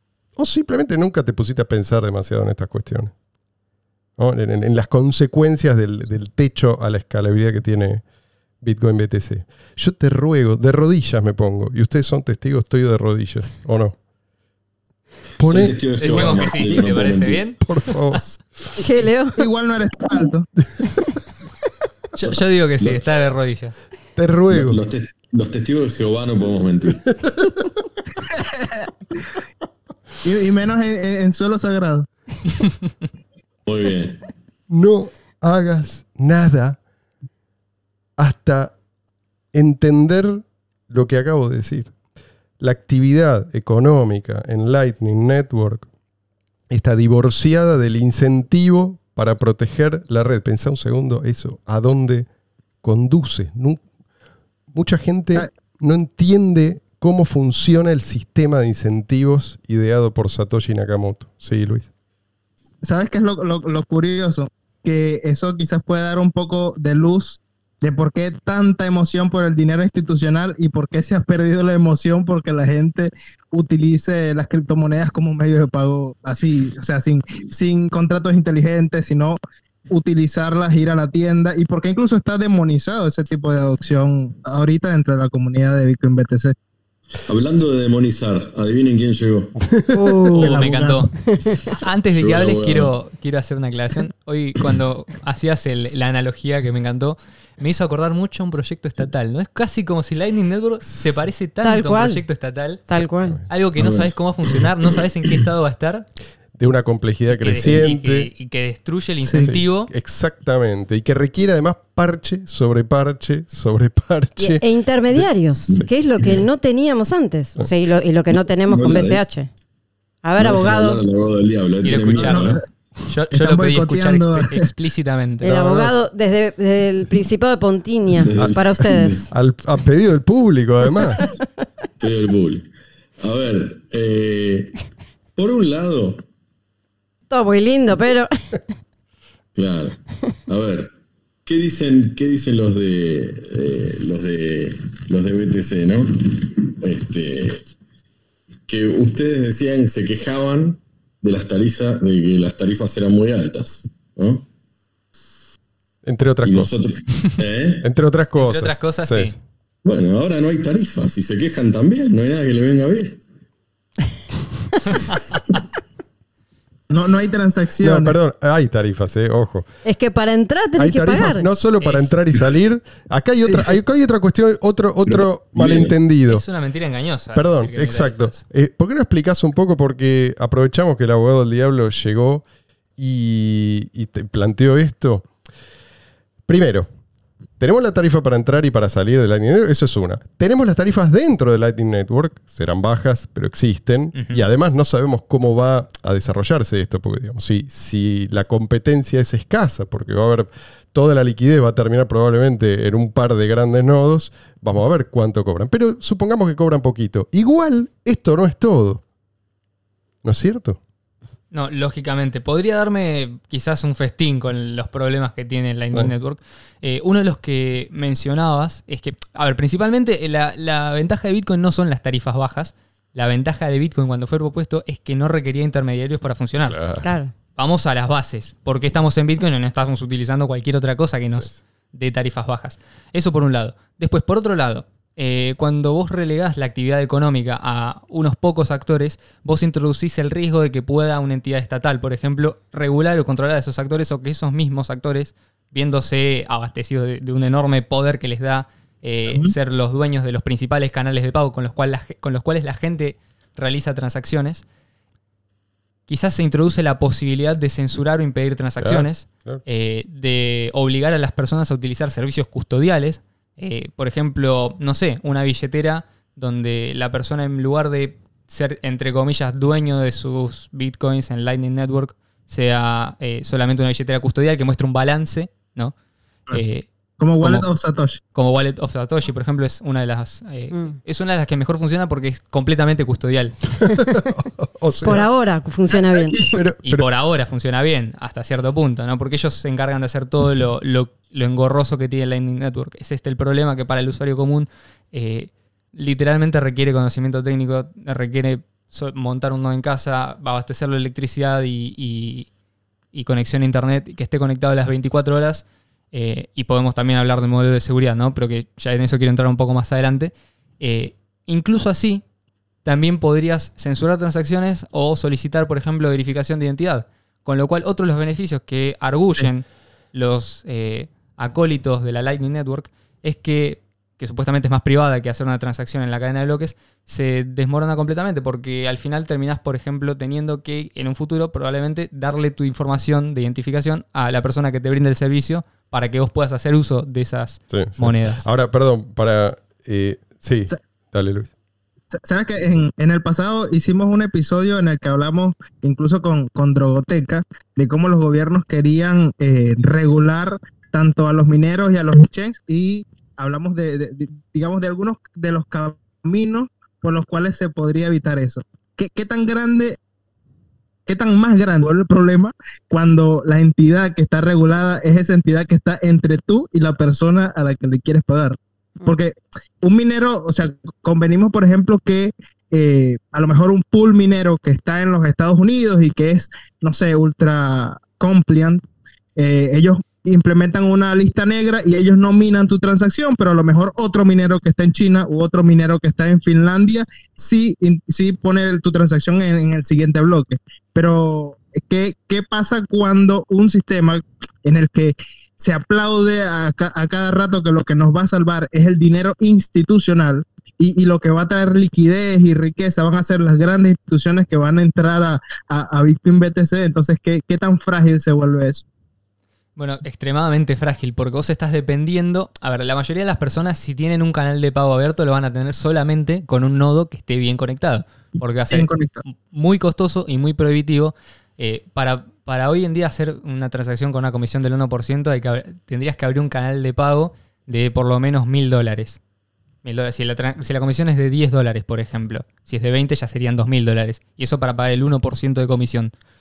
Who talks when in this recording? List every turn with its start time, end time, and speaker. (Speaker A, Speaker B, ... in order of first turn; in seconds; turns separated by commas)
Speaker A: 0.3-3.1, Speaker A: 4.2-8.0, Speaker A: 8.6-13.9, Speaker A: 15.4-16.7, Speaker B: 15.4-17.5, Speaker C: 16.0-18.2, Speaker A: 17.6-18.4, Speaker D: 18.8-19.4, Speaker E: 19.3-20.5, Speaker C: 22.2-23.8, Speaker A: 24.1-24.8, Speaker B: 24.5-27.1, Speaker A: 27.1-27.7, Speaker E: 28.2-28.9, Speaker E: 30.2-32.1, Speaker B: 33.6-34.3, Speaker A: 34.7-36.8, Speaker A: 38.2-38.7, Speaker A: 39.5-41.9, Speaker A: 42.6-45.9, Speaker A: 46.7-52.3, Speaker A: 52.8-53.8, Speaker A: 54.7-61.9, Speaker E: 62.8-79.4, Speaker E: 79.9-86.5, Speaker B: 87.2-89.5, Speaker A: 89.6-90.2, Speaker D: 89.9-90.5, Speaker E: 90.3-91.1, Speaker C: 90.3-91.1, Speaker D: 91.2-91.6, Speaker C: 91.7-106.1, Speaker B: 92.1-92.9, Speaker D: 101.6-102.2, Speaker D: 102.9-103.4, Speaker B: 103.8-105.4, Speaker A: 106.6-108.3, Speaker C: 107.3-109.9, Speaker E: 109.2-109.5, Speaker A: 109.3-115.9, Speaker D: 114.4-119.5, Speaker B: 118.7-119.2, Speaker D: 120.2-121.0, Speaker B: 120.4-122.6, Speaker C: 121.8-122.6, Speaker E: 122.2-122.6, Speaker C: 123.1-125.6, Speaker E: 123.3-124.7, Speaker A: 125.4-126.0, Speaker D: 125.4-129.3, Speaker B: 128.1-129.3, Speaker A: 128.3-128.6, Speaker A: 129.3-131.2, Speaker B: 132.0-132.7, Speaker B: 133.2-134.8, Speaker B: 135.3-136.2, Speaker D: 137.3-138.6, Speaker B: 139.5-140.9, Speaker B: 141.4-147.6, Speaker B: 148.7-154.4, Speaker A: 156.0-156.7, Speaker B: 156.4-157.8, Speaker A: 157.8-159.4, Speaker C: 158.4-159.3, Speaker B: 159.8-163.2, Speaker E: 166.9-168.2, Speaker A: 167.8-169.7, Speaker D: 169.8-171.5, Speaker A: 170.8-176.4, Speaker C: 171.8-172.1, Speaker E: 173.5-173.7, Speaker B: 175.1-175.9, Speaker C: 176.3-178.4, Speaker A: 177.3-182.4, Speaker A: 183.0-185.3, Speaker A: 186.5-186.9, Speaker A: 187.6-209.0, Speaker C: 194.1-194.4, Speaker A: 210.2-210.8, Speaker C: 211.5-226.8, Speaker A: 226.7-227.1, Speaker D: 227.0-227.3, Speaker C: 227.6-254.6, Speaker E: 249.3-249.5, Speaker C: 256.1-275.9, Speaker A: 258.8-259.6, Speaker C: 276.5-276.9, Speaker E: 277.2-278.2, Speaker C: 277.4-277.7, Speaker C: 278.3-283.7, Speaker A: 283.8-285.2, Speaker D: 285.0-286.5, Speaker E: 285.9-286.5, Speaker A: 286.5-287.1, Speaker C: 286.8-302.5, Speaker C: 303.1-312.2, Speaker C: 312.8-338.4, Speaker A: 337.7-341.5, Speaker E: 342.1-360.0, Speaker E: 361.1-378.8, Speaker E: 379.4-408.8, Speaker C: 409.8-429.2, Speaker E: 418.7-419.2, Speaker C: 429.8-436.1